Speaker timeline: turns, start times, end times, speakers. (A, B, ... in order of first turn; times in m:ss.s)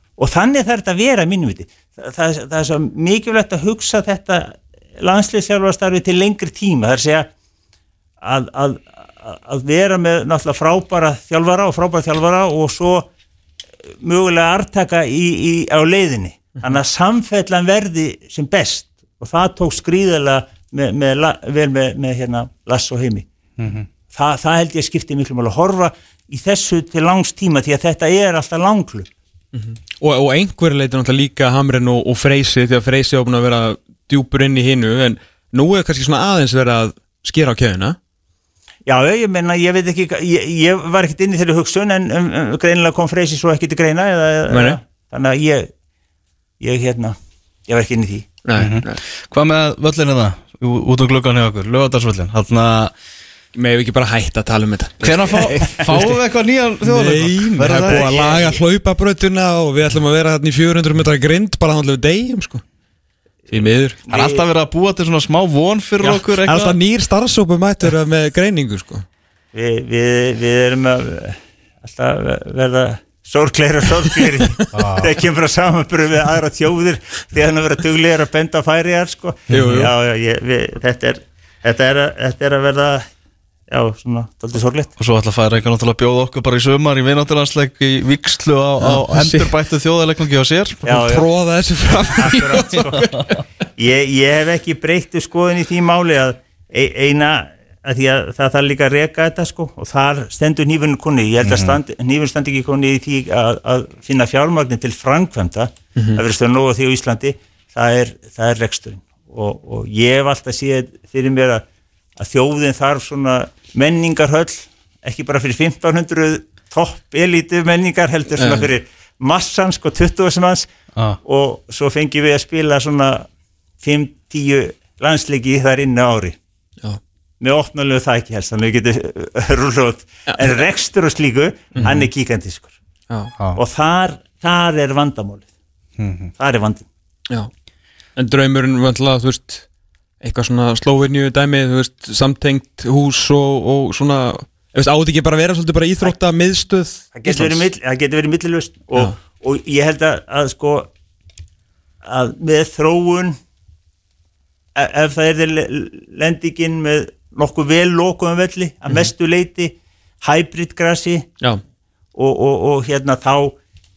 0:00.2-0:07.3 A
0:08.2-0:13.1 A
0:14.0-0:23.2 A
0:23.6-0:23.9 B
0:24.1-0:29.1 A
0:29.5-0:38.0 C
0:38.8-0:45.7 A
0:44.5-0:44.8 C
0:46.6-0:47.2 A
0:47.7-0:48.3 A
0:48.4-0:49.0 C
0:48.6-0:52.9 B
0:53.5-0:56.1 C
0:55.0-0:58.1 B
0:56.8-1:02.6 C
0:57.9-0:58.6 A
1:03.5-1:04.0 C
1:04.1-1:04.4 A
1:04.1-1:06.8 B
1:06.0-1:09.0 C
1:09.5-1:23.0 A
1:14.7-1:15.1 B
1:19.5-1:19.9 C
1:19.5-1:19.8 B
1:23.7-1:24.9 A
1:25.0-1:31.0 B
1:28.8-1:29.5 C
1:30.8-1:31.3 A
1:30.9-1:33.4 C
1:32.1-1:33.1 A
1:33.8-1:51.6 A
1:41.4-1:41.8 B
1:52.2-2:00.7 A
1:58.4-1:58.7 C
2:01.2-2:03.3 A
2:03.8-2:06.4 A
2:07.4-2:12.7 A
2:11.7-2:12.0 C
2:13.6-2:15.5 A
2:16.0-2:16.3 B
2:16.4-2:16.8 A
2:18.2-2:19.6 C
2:20.2-2:27.7 C
2:27.1-2:30.9 A
2:32.0-2:33.4 A
2:34.7-2:41.3 A
2:42.1-2:43.6 A